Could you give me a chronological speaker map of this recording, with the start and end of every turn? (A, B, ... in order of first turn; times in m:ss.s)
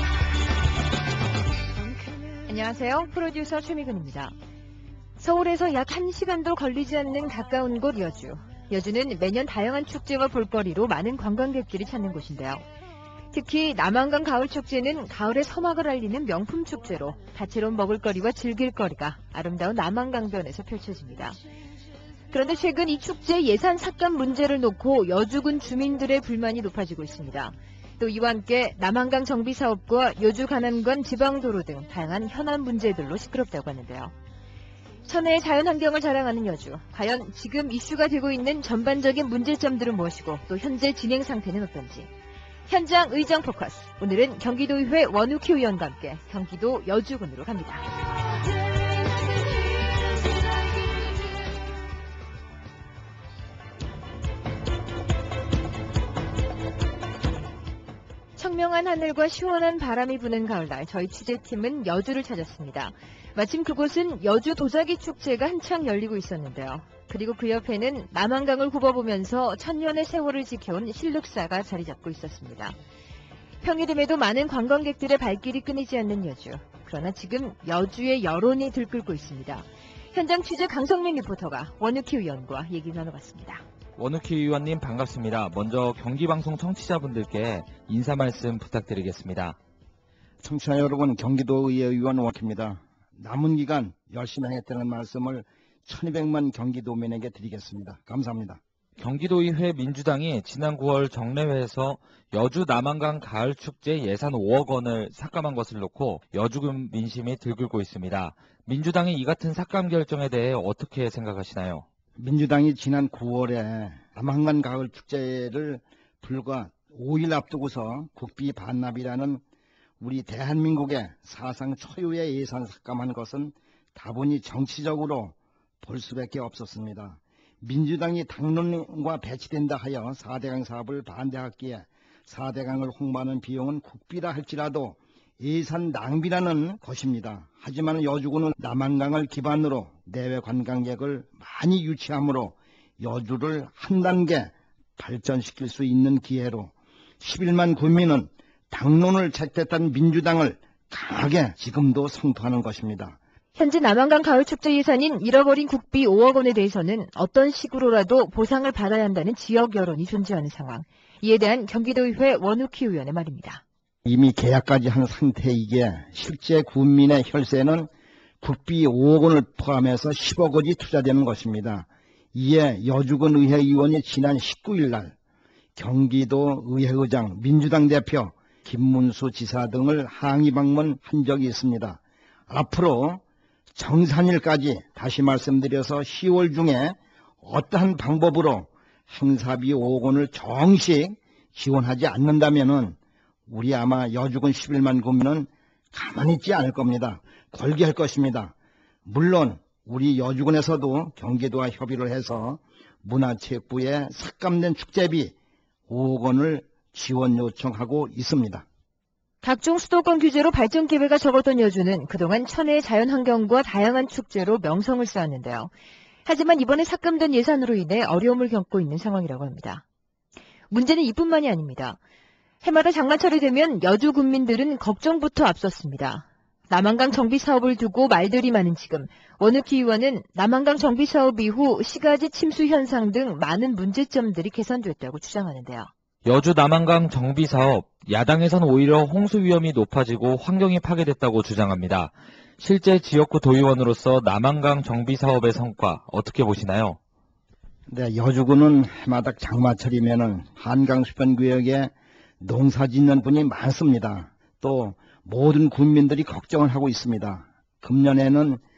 0:02.3-0:04.4 A
0:05.2-0:12.6 A
0:13.3-0:21.4 A
0:22.3-0:34.1 A
0:35.0-0:42.1 A
0:42.7-0:47.8 A
0:58.4-1:12.8 A
1:13.6-1:23.6 A
1:24.0-1:29.6 B
1:30.4-1:38.6 C
1:39.0-1:51.8 B
1:52.2-1:59.4 C
2:00.0-2:33.2 C
2:33.6-2:43.6 A
2:44.0-2:47.9 C
2:48.4-2:55.2 C
2:55.8-3:03.2 C
3:03.8-3:13.0 C
3:13.5-3:18.5 C
3:19.1-3:25.4 C
3:25.9-3:28.6 C
3:29.4-3:35.7 A
3:36.2-3:39.8 A
3:40.7-3:42.0 A
3:42.6-3:55.9 A
3:56.2-4:07.0 B
4:07.9-4:18.6 C